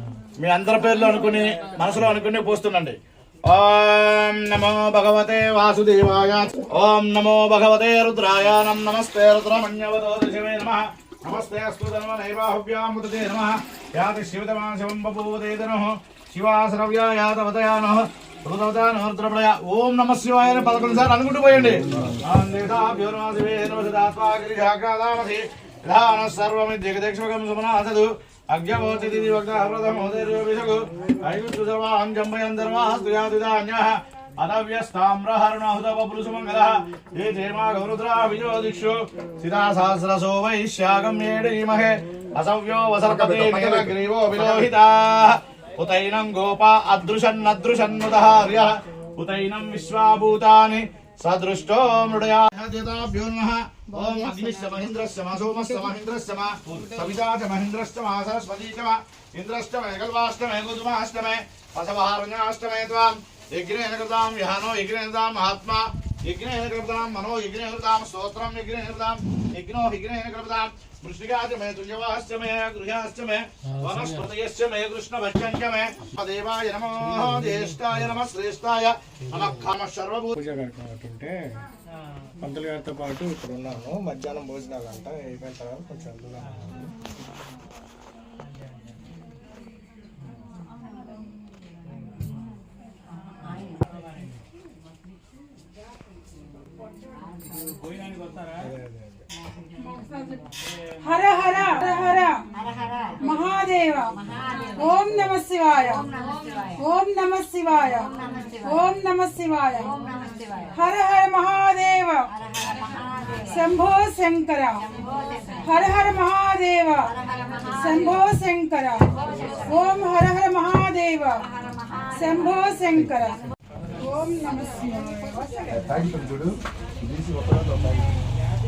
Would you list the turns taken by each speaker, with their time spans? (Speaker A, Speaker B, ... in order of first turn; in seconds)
Speaker A: 0.4-80.4
Speaker B: 21.9-22.1, 77.1-77.7, 80.3-81.6, 82.4-86.9, 98.6-99.2
Speaker C: 43.0-44.7, 125.7-128.1
Speaker D: 99.8-100.4, 101.0-102.3, 103.2-104.1, 104.8-106.0, 106.8-108.1, 108.6-110.0, 110.7-112.3, 113.5-114.8, 115.6-117.1, 117.7-119.1, 119.6-121.4, 122.2-123.5, 124.0-125.7